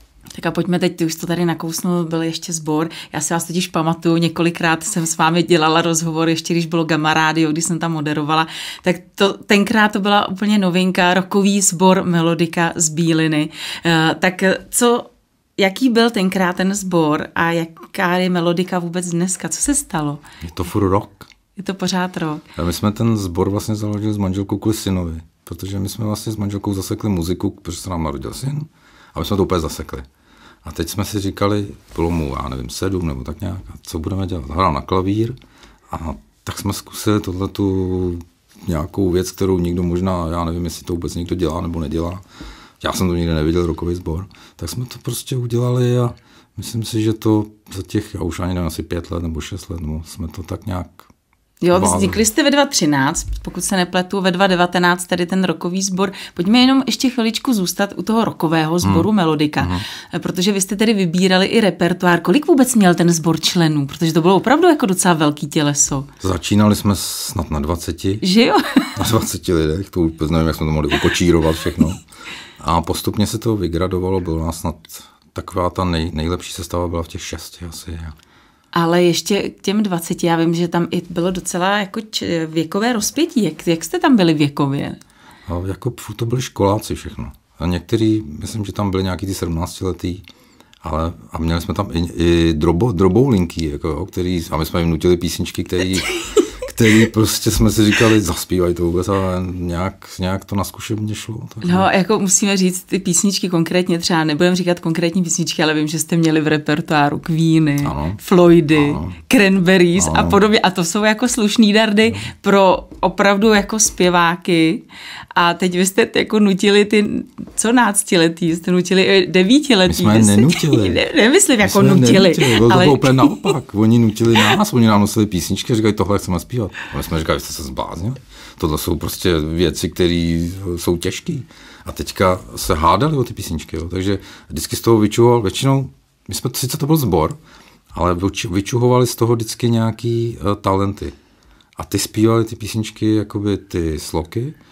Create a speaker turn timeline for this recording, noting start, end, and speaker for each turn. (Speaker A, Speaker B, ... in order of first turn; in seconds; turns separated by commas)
Speaker A: 0.3-20.2, Speaker B: 20.4-21.3, Speaker A: 21.6-22.4, Speaker B: 22.6-30.1, Speaker B: 30.6-35.4, Speaker B: 35.9-42.2, Speaker B: 42.8-51.1, Speaker A: 51.6-66.1, Speaker B: 51.7-52.2, Speaker B: 58.8-59.9, Speaker B: 66.2-68.2, Speaker A: 68.2-69.0, Speaker B: 69.0-72.0, Speaker B: 72.6-78.2, Speaker A: 78.7-85.0, Speaker B: 85.5-90.2, Speaker B: 90.8-101.9, Speaker A: 101.6-123.5, Speaker B: 107.8-108.2, Speaker B: 108.7-109.2, Speaker B: 110.0-110.4, Speaker B: 119.9-121.0, Speaker B: 121.6-137.4, Speaker B: 137.9-141.2, Speaker B: 141.8-144.6